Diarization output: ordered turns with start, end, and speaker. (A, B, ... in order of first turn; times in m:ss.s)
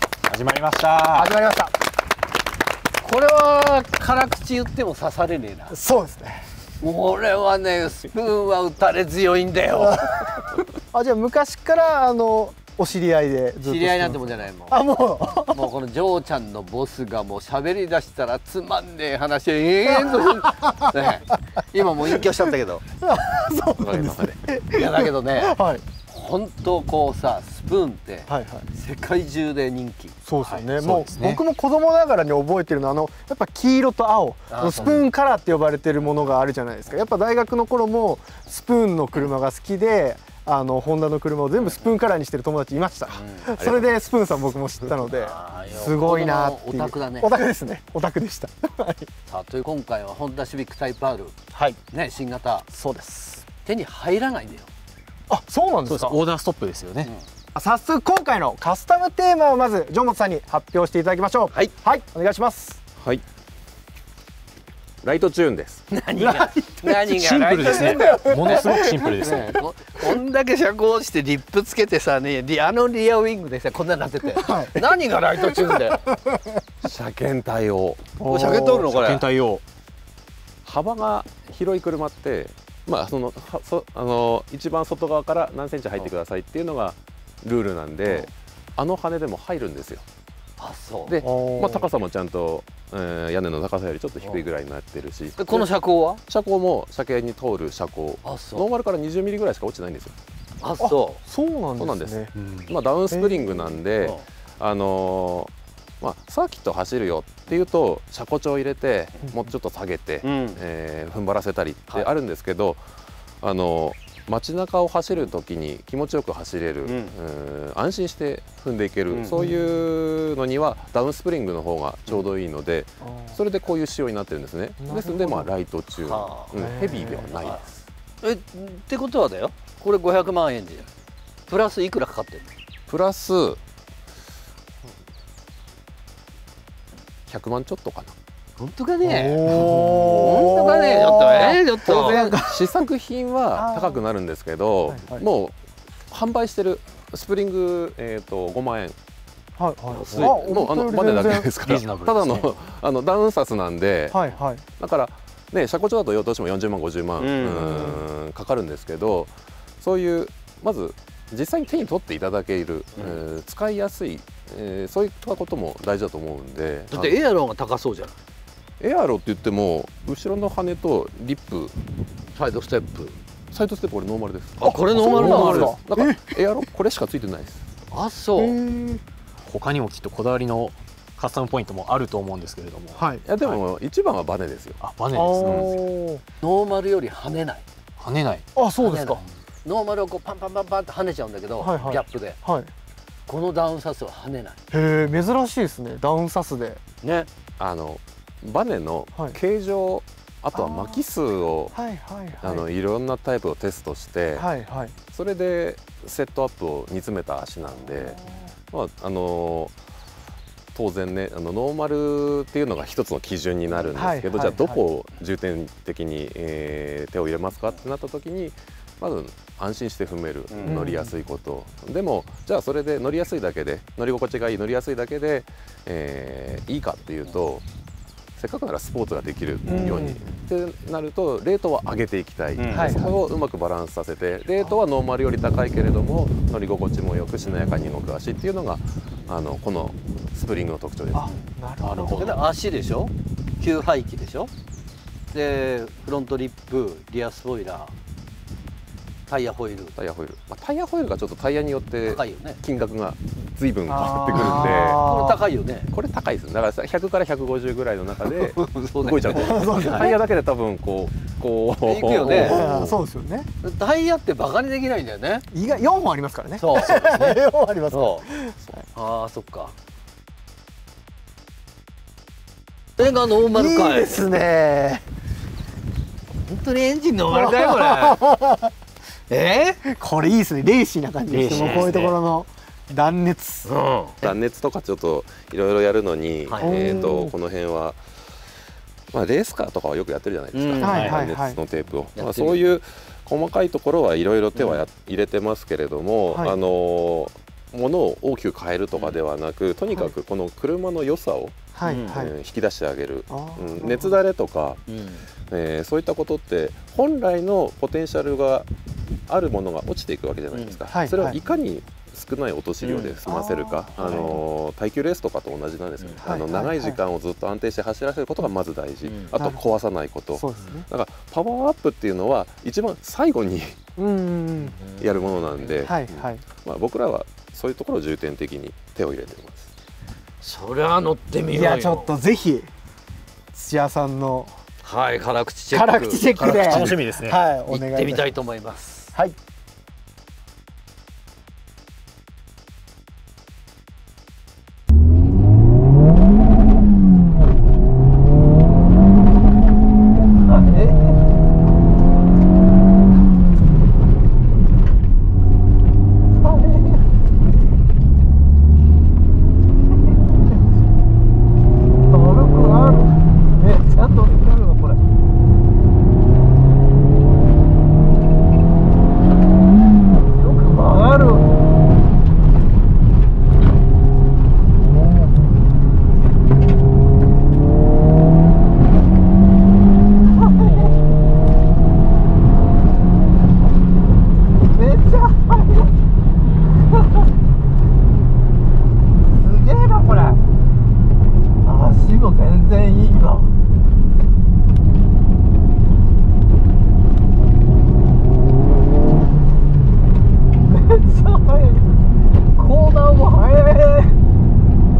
0:00.3-0:01.3 A
0:01.1-0:01.7 B
0:03.0-0:05.8 C
0:05.7-0:06.4 B
0:06.8-0:10.3 C
0:10.9-0:14.2 B
0:13.6-0:22.8 C
0:14.7-0:15.6 B
0:20.0-0:20.8 B
0:23.0-0:25.8 B
0:23.8-0:24.4 D
0:24.7-0:30.1 C
0:28.3-0:28.7 B
0:30.2-0:49.1 B
0:30.4-0:31.4 A
0:34.5-0:35.0 C
0:41.6-0:41.8 C
0:43.1-0:43.4 C
0:43.6-0:43.9 D
0:45.1-0:47.3 C
0:49.3-0:51.3 C
0:51.9-0:52.7 C
0:52.7-0:53.4 B
0:53.6-0:54.7 C
0:55.3-0:56.2 B
0:55.9-0:57.1 A
0:57.5-1:02.8 B
1:05.0-1:05.8 D
1:05.9-1:16.0 C
1:06.2-1:06.5 B
1:07.1-1:09.5 A
1:07.8-1:09.0 B
1:14.4-1:14.8 B
1:15.4-1:16.6 B
1:16.8-1:18.1 D
1:18.2-1:18.7 B
1:18.2-1:19.3 C
1:18.5-1:19.6 A
1:20.6-1:30.0 D
1:30.6-1:31.2 C
1:31.1-1:35.7 D
1:31.2-1:31.9 B
1:35.4-1:36.2 C
1:36.3-1:40.1 D
1:38.2-1:38.6 C
1:40.6-1:41.2 C
1:40.8-1:42.3 B
1:41.8-1:52.8 D
1:43.1-1:43.6 B
1:50.2-1:50.6 C
1:53.4-2:07.8 D
1:56.8-1:57.1 C
1:59.4-1:59.6 B
2:03.0-2:03.4 B
2:04.8-2:05.5 B
2:06.0-2:06.5 C
2:06.5-2:07.4 B
2:08.2-2:10.9 C
2:11.5-2:12.5 C
2:12.9-2:13.6 D
2:17.3-2:18.1 D
2:18.6-2:22.2 C
2:19.0-2:22.8 B
2:19.9-2:20.5 D
2:21.2-2:25.5 D
2:23.5-2:24.0 B
2:24.8-2:25.3 B
2:26.1-2:29.0 D
2:29.6-2:31.5 B
2:29.9-2:30.4 C
2:30.1-2:34.2 D
2:31.6-2:32.5 A
2:34.1-2:34.6 B
2:34.8-2:47.2 D
2:37.2-2:38.0 C
2:46.9-2:48.1 C
2:48.8-2:51.7 D
2:52.3-2:53.1 C
2:53.5-2:57.6 D
2:54.6-2:55.7 C
2:54.6-2:56.4 B
2:57.9-2:58.6 C
2:58.4-2:59.0 B
2:59.4-3:03.5 A
3:02.9-3:03.2 B
3:03.2-3:04.8 D
3:04.8-3:05.7 A
3:05.1-3:06.2 B
3:05.4-3:05.7 D
3:06.4-3:07.6 C
3:08.0-3:08.4 A
3:08.5-3:09.2 B
3:08.8-3:12.4 C
3:11.6-3:12.7 B
3:13.3-3:14.6 C
3:14.7-3:16.8 B
3:17.0-3:17.3 C
3:17.6-3:21.7 D
3:20.5-3:21.0 B
3:21.7-3:22.6 B
3:22.4-3:24.5 D
3:24.3-3:25.0 B
3:25.1-3:28.2 D
3:28.0-3:28.4 B
3:28.7-3:29.7 D
3:30.7-3:47.6 D
3:33.9-3:34.8 B
3:40.5-3:40.9 C
3:40.6-3:41.1 B
3:48.4-4:01.3 D
3:49.6-3:50.0 C
3:49.7-3:50.2 B
3:52.6-3:53.0 C
3:52.7-3:53.1 B
4:01.1-4:02.3 B
4:01.8-4:02.4 A
4:02.2-4:04.5 C
4:05.3-4:07.9 C
4:09.3-4:09.9 C
4:10.0-4:15.0 D
4:12.0-4:12.6 C
4:13.9-4:15.4 B
4:14.4-4:15.9 C
4:15.9-4:23.0 D
4:18.2-4:20.1 C
4:19.3-4:20.1 B
4:21.8-4:22.7 C
4:22.3-4:23.5 B
4:23.6-4:25.4 C
4:25.5-4:28.6 B
4:26.6-4:28.3 C
4:28.9-4:29.7 C
4:33.0-4:34.2 C
4:33.0-4:35.0 B
4:36.4-4:38.2 C
4:37.3-4:38.7 B
4:39.3-4:39.8 C
4:39.8-4:43.7 B
4:41.3-4:42.1 C
4:41.6-4:41.9 D
4:43.6-4:44.3 C
4:44.2-4:48.0 D
4:46.5-4:47.0 C
4:46.6-4:47.3 B
4:49.1-5:01.5 D
4:50.5-4:51.2 C
4:50.8-4:51.6 B
4:52.1-4:52.6 C
4:54.5-4:54.8 C
5:01.7-5:02.3 B
5:01.8-5:02.2 C
5:02.0-5:04.8 D
5:03.3-5:04.2 B
5:04.9-5:05.2 C
5:05.5-5:08.7 D
5:09.3-5:23.8 D
5:10.5-5:10.8 C
5:10.9-5:11.4 B
5:12.8-5:13.2 C
5:13.2-5:14.4 B
5:14.0-5:14.3 C
5:16.0-5:16.3 C
5:16.2-5:17.0 B
5:19.0-5:19.3 C
5:20.3-5:20.9 B
5:24.0-5:24.8 B
5:24.8-5:25.9 C
5:25.0-5:29.7 D
5:25.8-5:26.4 B
5:30.4-5:32.1 C
5:31.5-5:32.7 B
5:33.5-5:34.5 B
5:34.8-5:36.2 C
5:35.7-5:38.3 B
5:36.4-5:37.4 A
5:37.7-5:39.1 C
5:50.4-5:51.1 C
5:56.4-5:57.0 C
6:02.1-6:05.0 C
6:10.3-6:11.5 C
6:20.3-6:20.9 C
6:24.7-6:25.9 C
6:29.2-6:30.4 C
6:31.6-6:33.5 C
6:40.6-6:41.8 C
6:42.5-6:44.1 C